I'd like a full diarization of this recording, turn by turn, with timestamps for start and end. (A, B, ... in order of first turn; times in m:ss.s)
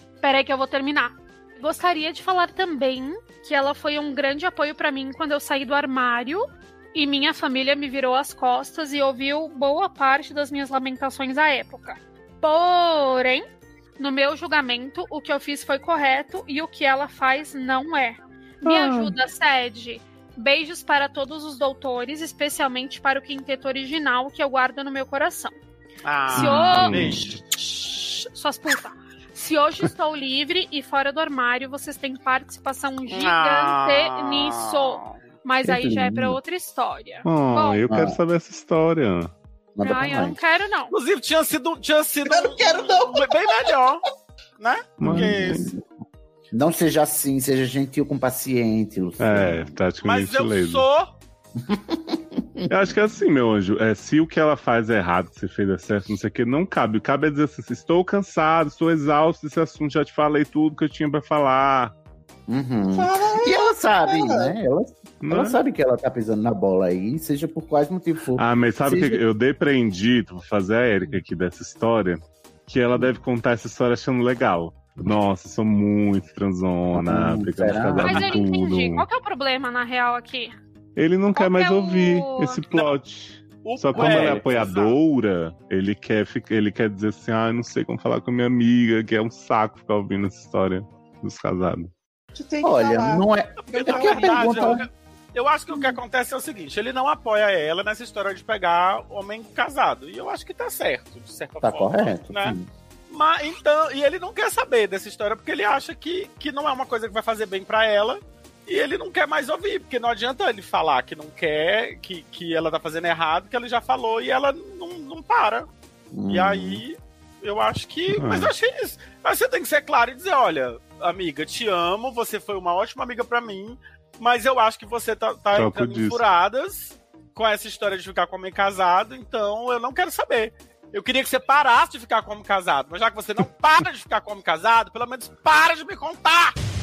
0:00.2-0:13.4 A
0:14.0-0:25.5 A
0:18.6-0:19.1 B
0:26.0-0:27.3 C
0:26.3-0:27.3 B
0:26.3-0:37.8 A
0:33.1-0:35.2 C
0:35.6-0:36.4 D
0:37.2-0:39.3 B
0:37.9-0:38.2 D
0:39.8-0:40.4 D
0:39.8-0:40.9 A
0:40.9-0:44.0 C
0:42.2-0:43.7 E
0:44.6-0:45.6 C
0:45.0-0:45.7 B
0:45.0-0:45.8 D
0:46.5-0:49.8 D
0:49.2-0:50.8 B
0:50.0-0:51.2 C
0:51.6-0:52.9 D
0:52.7-1:01.9 B
1:02.5-1:09.2 D
1:02.9-1:04.5 E
1:05.2-1:05.6 B
1:08.4-1:19.0 B
1:12.9-1:13.2 D
1:17.0-1:18.2 D
1:18.0-1:20.6 A
1:21.0-1:31.9 B
1:21.3-1:22.6 A
1:23.6-1:25.0 C
1:23.9-1:24.7 D
1:32.3-1:34.8 E
1:32.6-1:34.8 D
1:33.7-1:42.6 C
1:41.6-1:42.6 D
1:43.1-1:55.7 C
1:56.1-1:56.8 D
1:56.3-2:16.5 C
1:58.1-1:58.5 B
2:05.5-2:06.2 B